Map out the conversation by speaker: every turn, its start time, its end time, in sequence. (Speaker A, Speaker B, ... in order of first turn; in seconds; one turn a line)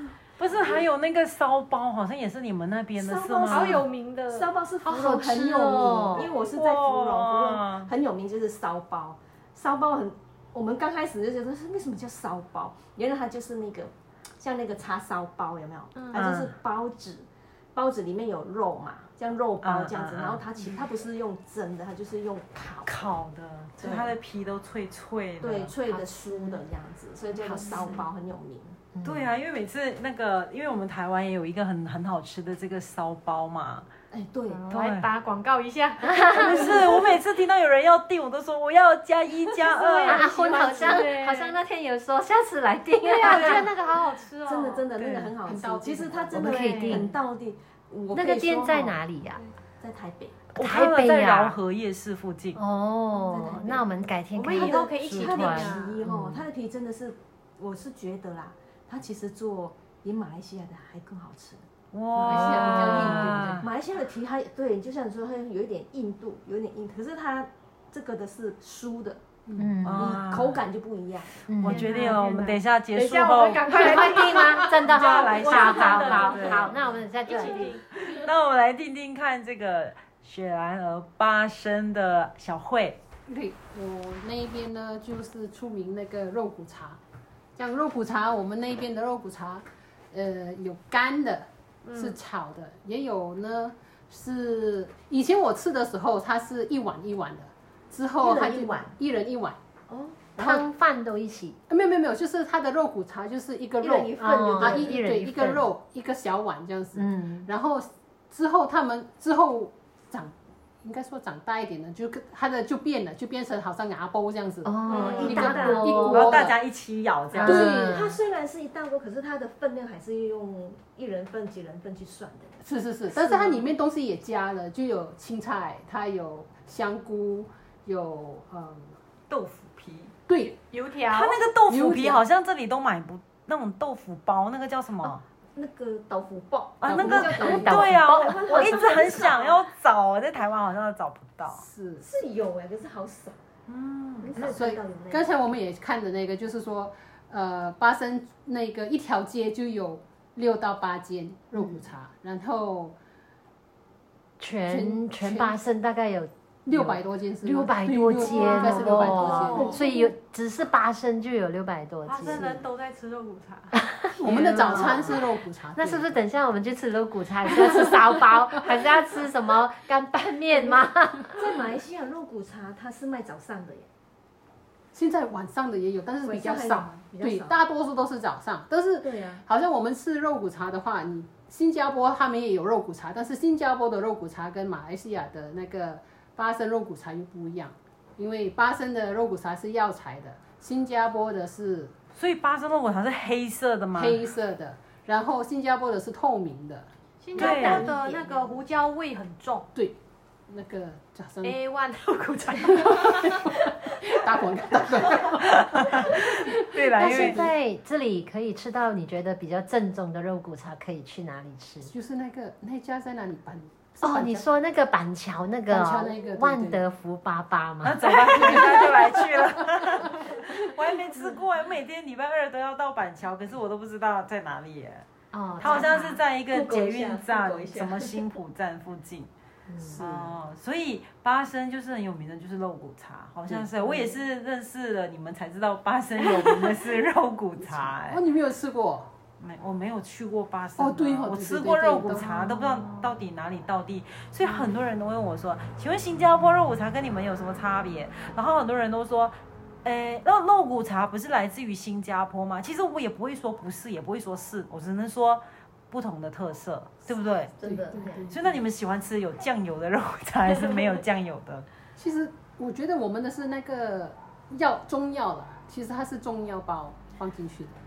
Speaker A: 0.4-3.9
Speaker B: 3.0-23.1
Speaker C: 3.5-4.5
Speaker D: 4.8-6.3
Speaker A: 6.3-7.9
Speaker C: 15.9-16.2
Speaker A: 16.1-16.5
Speaker A: 19.6-20.4
Speaker A: 22.9-25.8
Speaker B: 23.8-24.1
Speaker B: 25.4-28.8
Speaker D: 25.9-26.6
Speaker D: 27.4-28.0
Speaker D: 28.9-29.3
Speaker A: 29.0-33.9
Speaker B: 34.1-34.6
Speaker C: 34.5-37.2
Speaker A: 34.7-35.1
Speaker D: 36.1-36.5
Speaker A: 36.2-40.3
Speaker C: 39.5-41.6
Speaker D: 40.1-43.7
Speaker B: 40.4-41.0
Speaker C: 43.0-44.9
Speaker A: 43.2-43.5
Speaker B: 44.4-49.0
Speaker A: 45.0-45.3
Speaker E: 45.5-46.4
Speaker D: 46.3-47.2
Speaker C: 46.4-47.1
Speaker D: 48.1-49.4
Speaker B: 49.8-50.4
Speaker A: 50.5-52.6
Speaker D: 50.6-51.6
Speaker D: 52.6-56.5
Speaker B: 53.1-53.9
Speaker C: 54.4-56.0
Speaker B: 54.5-61.6
Speaker A: 55.0-55.3
Speaker A: 61.9-63.7
Speaker B: 62.2-69.3
Speaker C: 62.2-63.4
Speaker D: 69.5-70.2
Speaker A: 69.8-70.7
Speaker B: 70.0-71.4
Speaker D: 71.5-72.0
Speaker A: 71.5-76.7
Speaker C: 71.6-78.2
Speaker D: 73.7-77.8
Speaker A: 78.0-83.0
Speaker E: 83.3-87.0
Speaker E: 87.6-99.6
Speaker C: 91.8-92.2
Speaker B: 98.2-99.0
Speaker D: 100.3-101.6
Speaker E: 100.4-100.7
Speaker E: 101.7-116.6
Speaker B: 103.8-105.0
Speaker D: 104.2-105.7
Speaker D: 107.0-107.5
Speaker D: 114.6-116.5
Speaker B: 114.9-116.1
Speaker C: 114.9-115.3
Speaker A: 116.1-117.7
Speaker E: 117.3-118.0
Speaker D: 117.4-118.2
Speaker B: 117.4-123.7
Speaker E: 122.6-129.0
Speaker A: 129.3-130.1
Speaker E: 130.3-130.6
Speaker C: 130.7-131.5
Speaker A: 131.1-135.2
Speaker E: 131.7-132.2
Speaker B: 135.6-139.6
Speaker A: 136.8-141.6
Speaker D: 136.9-139.2
Speaker E: 141.5-142.1
Speaker B: 142.0-143.4
Speaker A: 143.7-144.6
Speaker B: 144.2-145.3
Speaker E: 144.4-153.0
Speaker D: 151.6-151.9
Speaker D: 154.4-162.6
Speaker E: 154.7-155.6
Speaker E: 156.7-159.9
Speaker C: 158.2-159.7
Speaker B: 159.2-159.8
Speaker C: 162.1-163.8
Speaker D: 163.7-165.1
Speaker B: 164.2-165.2
Speaker E: 164.2-166.2
Speaker D: 165.8-171.4
Speaker B: 171.3-173.9
Speaker E: 174.9-191.9
Speaker B: 176.2-177.6
Speaker B: 179.0-179.4
Speaker A: 192.1-194.2
Speaker E: 193.9-196.9
Speaker C: 197.2-199.7
Speaker A: 197.3-197.9
Speaker B: 197.3-198.5
Speaker E: 199.7-201.6
Speaker C: 201.4-203.7
Speaker E: 202.6-207.5
Speaker A: 205.4-207.4
Speaker D: 207.0-211.9
Speaker E: 211.8-214.5
Speaker D: 214.0-218.8
Speaker E: 215.7-216.8
Speaker A: 217.8-225.1
Speaker E: 218.3-220.4
Speaker D: 225.3-226.2
Speaker A: 225.6-229.3
Speaker B: 225.7-225.9
Speaker B: 226.5-228.2
Speaker D: 229.7-230.0
Speaker E: 229.8-230.3
Speaker A: 229.9-238.2
Speaker E: 237.9-239.1
Speaker A: 239.4-257.7
Speaker E: 240.8-242.7
Speaker B: 257.6-258.2
Speaker E: 257.6-258.6
Speaker A: 258.3-261.7
Speaker E: 262.0-267.8